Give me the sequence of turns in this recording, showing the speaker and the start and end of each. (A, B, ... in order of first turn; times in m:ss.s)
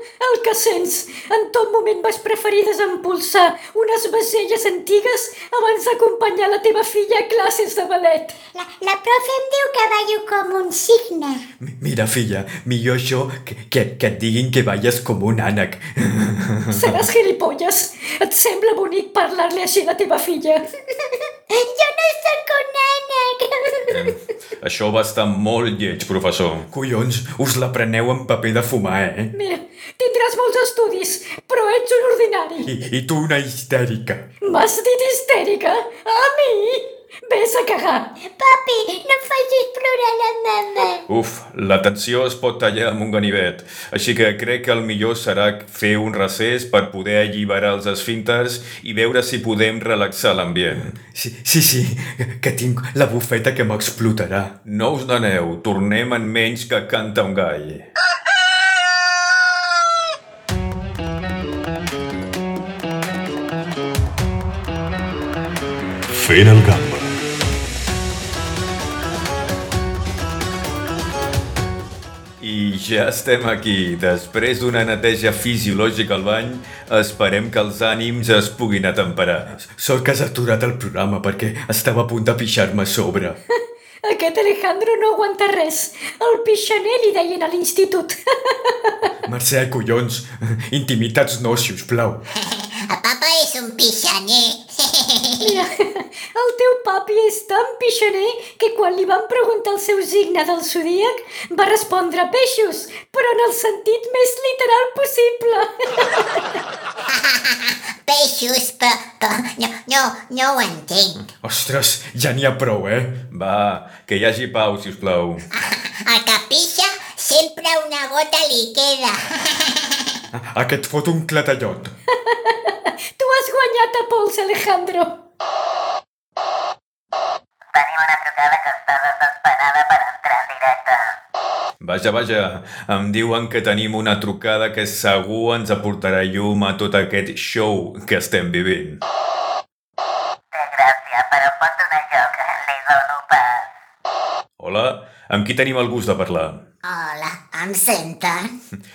0:00.2-0:08.4 A
0:08.5-0:11.4 B
0:11.6-0:17.1 C
0:16.7-0:20.7 A
0:21.5-0:24.2 B
0:23.9-0:26.7 D
0:26.7-0:29.3 C
0:29.3-0:32.7 A
0:32.6-0:34.3 C
0:34.4-0:38.2 A
0:38.2-0:41.1 B
0:41.1-0:50.9 D
0:50.7-0:54.6 C
0:54.7-0:57.9 D
1:06.1-1:07.1 D
1:12.4-1:19.6 D
1:19.6-1:23.4 C
1:23.6-1:29.1 A
1:29.2-1:32.3 C
1:32.4-1:35.6 E
1:35.4-1:46.6 A
1:47.1-1:51.2 E
1:51.4-1:53.3 C
1:53.3-1:55.5 D
1:55.5-2:00.2 E
2:00.3-2:01.9 C
2:02.1-2:05.2 A
2:07.7-2:11.2 E
2:11.8-2:19.0 D
2:20.5-2:23.7 E
2:24.6-2:26.6 D
2:26.8-2:28.5 E